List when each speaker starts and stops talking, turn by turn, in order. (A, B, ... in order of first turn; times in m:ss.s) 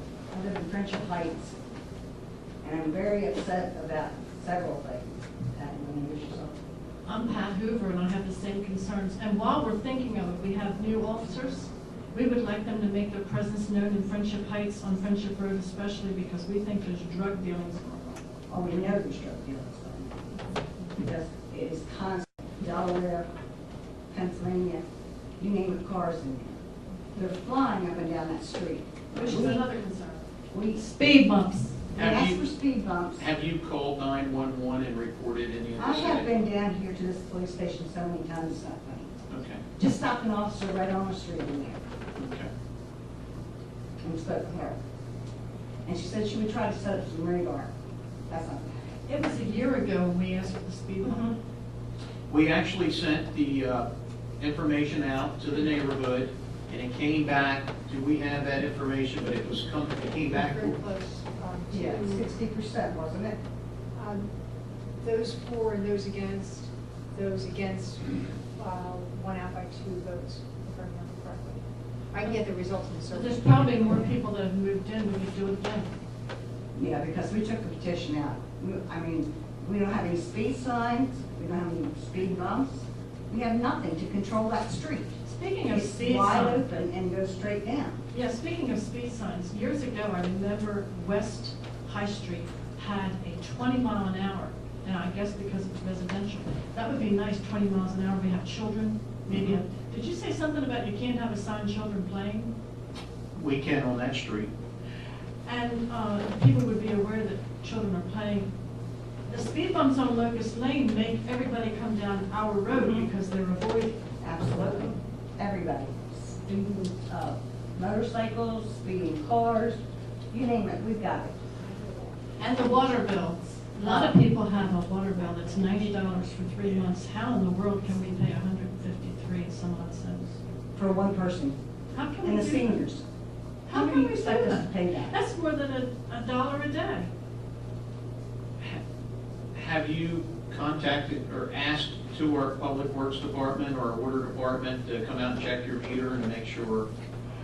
0:00.3-0:01.6 A
0:02.6-0:06.6 A
0:07.0-0:18.2 B
0:18.5-0:20.3 A
0:21.0-0:23.3 A
0:24.1-0:24.8 A
0:25.4-0:26.6 A
0:27.1-0:29.6 A
0:29.1-0:31.9 B
0:30.5-0:30.9 A
0:31.9-0:33.3 A
0:31.9-0:32.4 C
0:33.2-0:36.3 C
0:35.8-0:39.2 A
0:39.3-0:39.6 C
0:39.8-0:41.8 A
0:42.2-0:42.5 C
0:44.0-0:44.8 A
0:45.8-0:47.7 A
0:48.3-0:49.0 A
0:49.1-0:51.3 B
0:51.0-0:51.3 A
0:52.3-0:53.9 C
0:54.4-1:00.7 C
1:00.1-1:02.3 D
1:01.7-1:03.4 A
1:03.9-1:04.3 D
1:05.0-1:14.0 D
1:13.1-1:15.9 B
1:16.7-1:25.2 A
1:25.2-1:26.6 B
1:25.7-1:28.0 A
1:28.1-1:42.5 B
1:39.3-1:39.6 A
1:43.3-1:44.5 C
1:45.4-1:48.5 B
1:49.3-1:54.0 B
1:52.7-1:53.1 A
1:54.2-2:01.4 A
2:02.4-2:10.4 B
2:03.8-2:04.2 A
2:10.7-2:11.6 A
2:11.9-2:12.8 B
2:12.2-2:13.0 A
2:13.7-2:17.1 B
2:13.7-2:15.2 A
2:19.5-2:26.9 C